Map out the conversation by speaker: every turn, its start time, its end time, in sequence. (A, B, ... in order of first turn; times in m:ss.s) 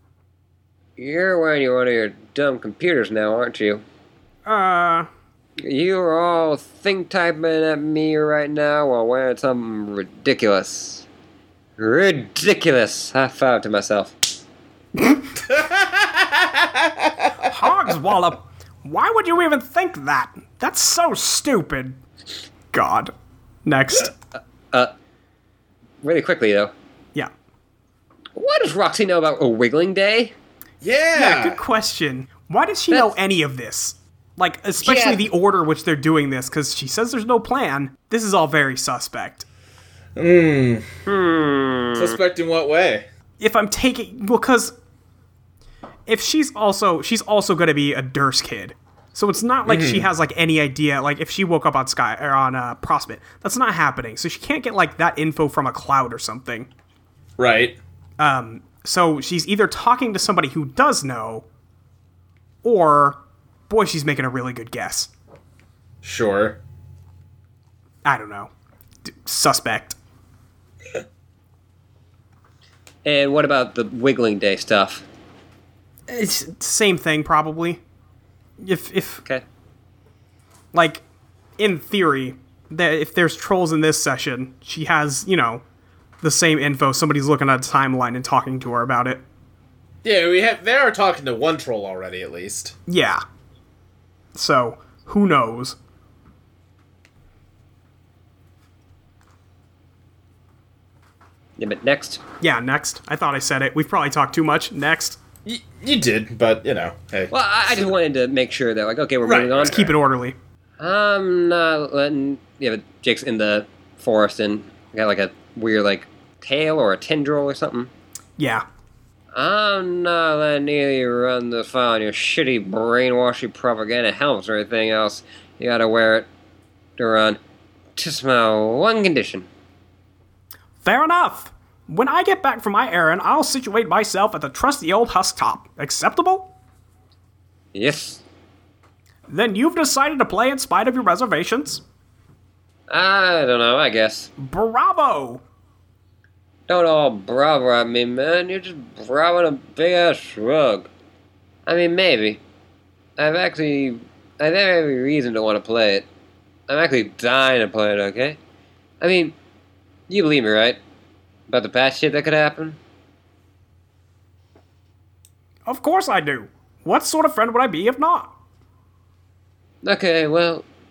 0:01.0-0:03.8 A
0:04.4-0:05.1 B
0:05.6-0:11.1 A
0:11.8-0:14.3 A
0:15.5-0:17.5 C
0:17.4-0:22.0 B
0:22.7-0:23.1 B
0:23.6-0:24.1 B
0:24.3-0:24.9 A
0:26.0-0:26.7 A
0:28.4-0:30.3 A
0:30.8-0:31.6 C
0:31.1-0:39.4 B
0:34.8-0:35.2 A
0:40.2-0:40.9 C
0:41.0-0:42.2 A
0:41.9-0:43.0 C
0:43.4-0:44.7 B
0:46.1-0:56.7 B
0:49.6-0:50.1 C
0:57.4-0:57.8 C
0:58.2-1:01.4 B
1:02.6-1:05.1 B
1:06.0-1:06.6 C
1:08.0-1:08.5 B
1:09.0-1:10.0 B
1:13.0-1:15.0 A
1:16.1-1:17.8 B
1:18.6-1:19.2 B
1:20.7-1:21.0 B
1:21.6-1:25.6 B
1:26.2-1:29.2 B
1:30.0-1:32.7 C
1:32.9-1:33.2 B
1:34.3-1:35.8 B
1:41.6-1:42.2 A
1:42.4-1:45.2 B
1:45.4-1:47.9 C
1:47.3-1:49.9 A
1:49.2-1:49.8 C
1:49.6-1:50.4 B
1:50.8-1:57.9 A
1:58.4-1:58.6 B
1:59.3-2:06.3 A
2:07.0-2:07.4 A
2:08.0-2:09.5 A
2:10.8-2:16.5 B
2:17.7-2:18.2 A
2:19.3-2:21.8 B
2:22.9-2:24.3 A
2:24.4-2:25.4 B
2:26.7-2:30.9 A
2:31.6-2:32.4 A
2:33.2-2:36.0 A
2:36.7-2:38.4 A
2:39.0-2:39.4 A
2:40.1-2:40.8 A
2:41.5-2:42.8 A
2:45.6-2:48.3 B
2:49.8-2:50.6 A